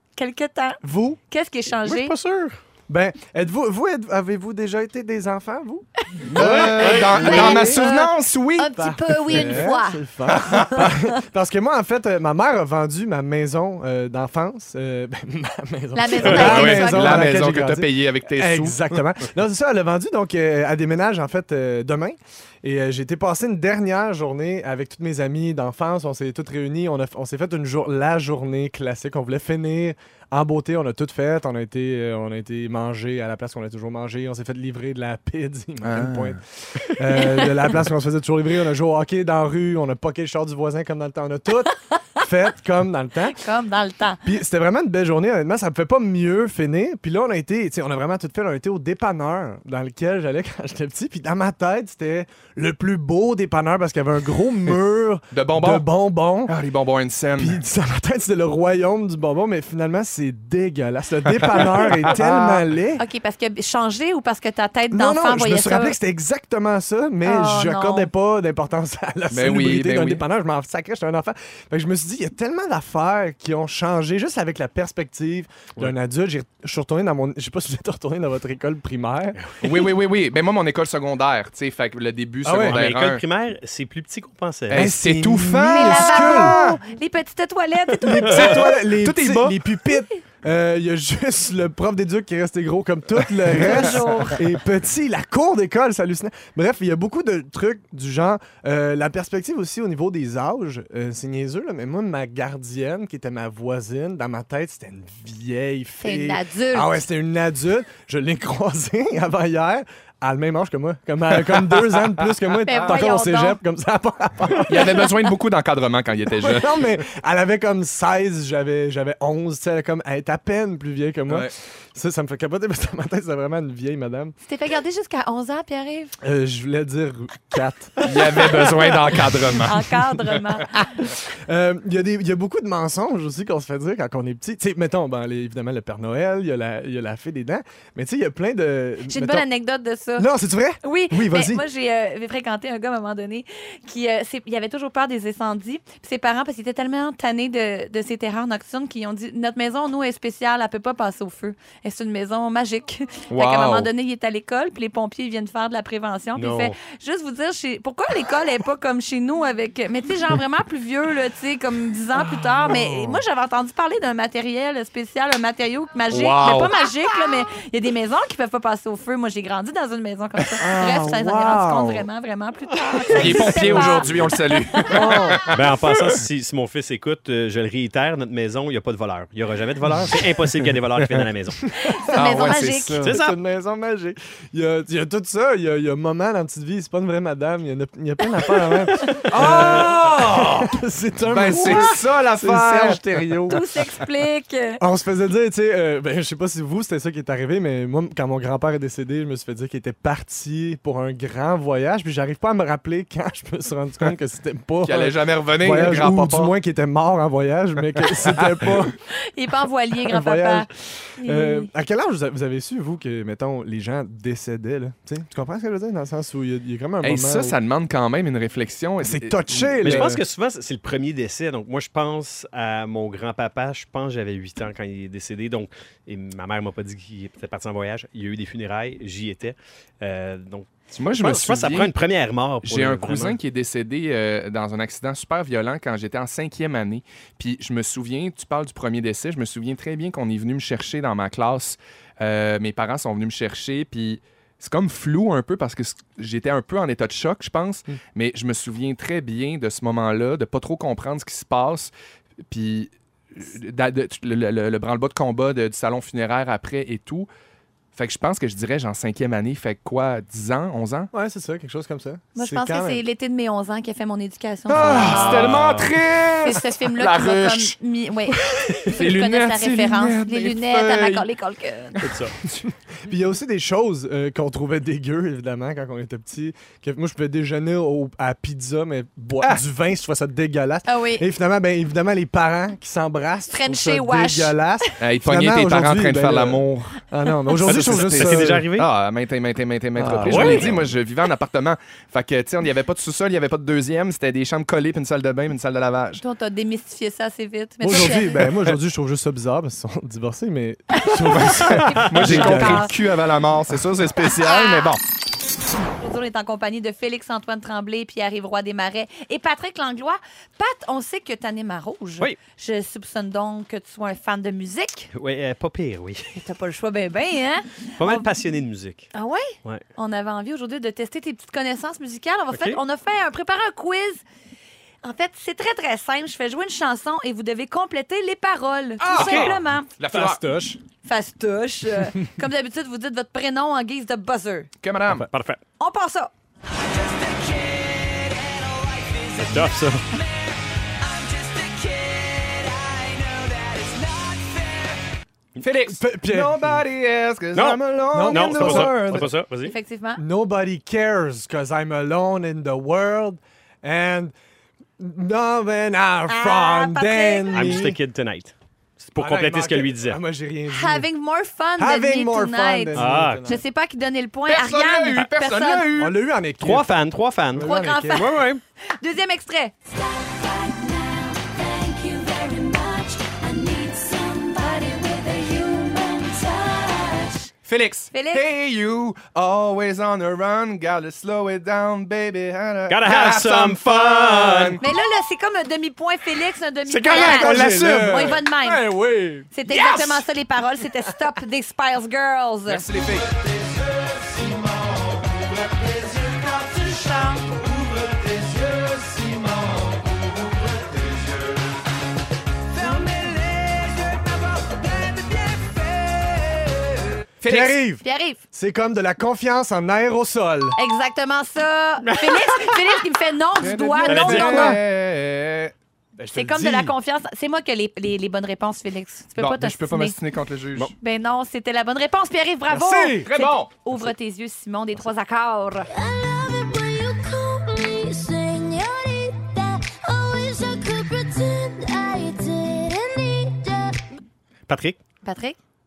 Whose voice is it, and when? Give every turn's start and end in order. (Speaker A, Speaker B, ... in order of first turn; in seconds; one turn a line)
Speaker A: 0.2-2.1
Speaker B: 0.8-1.2
Speaker C: 1.8-2.6
Speaker B: 2.9-7.9
Speaker A: 6.2-10.9
Speaker D: 6.3-8.8
Speaker C: 6.4-7.4
Speaker B: 8.8-43.4
Speaker D: 10.3-10.9
Speaker A: 15.9-17.3
Speaker C: 16.2-16.6
Speaker D: 16.3-19.0
Speaker D: 35.8-36.4
Speaker A: 37.2-37.5
Speaker A: 43.3-44.2
Speaker B: 44.2-56.6
Speaker D: 55.3-55.9
Speaker D: 56.5-57.6
Speaker B: 57.4-63.0
Speaker D: 61.3-62.7
Speaker A: 63.0-66.0
Speaker B: 64.9-79.4
Speaker A: 67.2-68.1
Speaker D: 69.3-70.2
Speaker D: 79.6-83.2
Speaker B: 82.4-82.8
Speaker C: 82.6-84.9
Speaker B: 84.7-86.6
Speaker D: 84.7-86.8
Speaker A: 85.7-88.6
Speaker B: 88.0-115.1
Speaker D: 88.3-89.6
Speaker A: 93.6-94.4
Speaker A: 106.0-107.0
Speaker D: 112.7-113.0
Speaker A: 112.7-113.6
Speaker D: 114.7-116.8
Speaker B: 116.3-124.3
Speaker D: 121.3-121.5
Speaker A: 124.5-126.1
Speaker B: 126.2-129.8
Speaker D: 128.0-129.9
Speaker A: 129.6-130.9
Speaker B: 130.8-139.4
Speaker A: 139.1-140.3
Speaker B: 140.2-141.6
Speaker A: 140.8-174.3
Speaker D: 153.3-153.9
Speaker C: 156.4-156.8
Speaker D: 166.1-166.8
Speaker B: 170.6-172.1
Speaker B: 173.1-174.0
Speaker D: 173.1-175.7
Speaker B: 174.9-175.5
Speaker C: 175.5-181.7
Speaker B: 179.9-180.2
Speaker A: 181.8-183.0
Speaker B: 181.8-193.6
Speaker D: 182.1-183.1
Speaker C: 183.0-183.4
Speaker D: 189.3-190.7
Speaker D: 191.3-193.6
Speaker A: 193.5-194.8
Speaker B: 194.8-209.0
Speaker D: 204.8-206.5
Speaker D: 208.1-208.7
Speaker A: 209.1-211.7
Speaker B: 210.1-217.6
Speaker D: 217.0-220.1
Speaker B: 219.0-220.2
Speaker C: 219.8-233.4
Speaker D: 230.9-231.9
Speaker D: 232.6-251.9
Speaker D: 252.5-257.3
Speaker D: 257.9-261.1
Speaker B: 261.1-263.0
Speaker A: 262.4-265.5
Speaker D: 264.7-267.8
Speaker B: 264.8-265.6
Speaker C: 264.9-265.9
Speaker A: 266.4-272.0
Speaker D: 268.5-271.3
Speaker C: 272.0-272.3
Speaker B: 272.6-288.7
Speaker A: 280.9-281.2
Speaker A: 283.5-284.6
Speaker D: 285.0-287.0
Speaker D: 287.6-296.2
Speaker C: 287.6-288.9
Speaker B: 290.0-290.9
Speaker C: 290.2-290.8
Speaker A: 296.2-298.6
Speaker B: 297.8-302.9
Speaker A: 301.0-302.9
Speaker D: 301.3-305.0
Speaker A: 304.4-304.9
Speaker A: 306.0-315.1
Speaker C: 315.1-316.4
Speaker A: 316.4-318.3
Speaker C: 318.0-319.1
Speaker A: 319.1-324.2
Speaker C: 322.5-322.8
Speaker A: 325.0-329.9
Speaker B: 329.0-329.5
Speaker D: 329.1-330.4
Speaker B: 330.1-330.8
Speaker A: 331.1-334.7
Speaker D: 334.8-335.3
Speaker C: 335.2-335.6
Speaker A: 335.8-336.3
Speaker A: 337.1-339.6
Speaker C: 339.4-340.1
Speaker A: 340.1-340.4
Speaker A: 341.0-345.0
Speaker D: 345.6-349.3
Speaker B: 345.9-346.9
Speaker C: 347.5-349.7
Speaker B: 348.1-349.3
Speaker A: 349.6-350.2
Speaker B: 350.2-354.3
Speaker B: 355.0-358.0
Speaker A: 356.3-357.7
Speaker C: 357.5-360.2
Speaker B: 359.2-361.1
Speaker A: 360.7-365.9
Speaker B: 361.8-363.6
Speaker C: 362.9-363.5
Speaker D: 364.5-366.1
Speaker B: 366.0-366.9
Speaker C: 366.6-368.6
Speaker B: 367.5-368.3
Speaker A: 367.6-368.4
Speaker A: 369.0-377.5
Speaker D: 377.6-384.8
Speaker A: 378.1-378.5
Speaker C: 382.9-384.8
Speaker A: 384.8-388.9
Speaker C: 386.9-388.1
Speaker B: 387.0-389.5
Speaker D: 387.1-388.3
Speaker A: 389.5-392.9
Speaker D: 389.7-390.2
Speaker D: 392.7-393.3
Speaker A: 396.4-397.6
Speaker A: 402.9-403.6
Speaker D: 407.4-407.8
Speaker B: 407.4-410.8
Speaker A: 408.0-408.4
Speaker A: 410.8-414.8
Speaker C: 412.0-413.0
Speaker D: 413.6-415.7
Speaker C: 414.1-414.8
Speaker B: 416.2-416.9
Speaker A: 416.3-420.2
Speaker D: 419.4-420.9
Speaker A: 421.0-426.7
Speaker B: 422.9-423.3
Speaker D: 423.0-423.7
Speaker E: 426.2-433.8
Speaker A: 427.6-433.5
Speaker C: 434.7-435.0
Speaker A: 435.2-435.6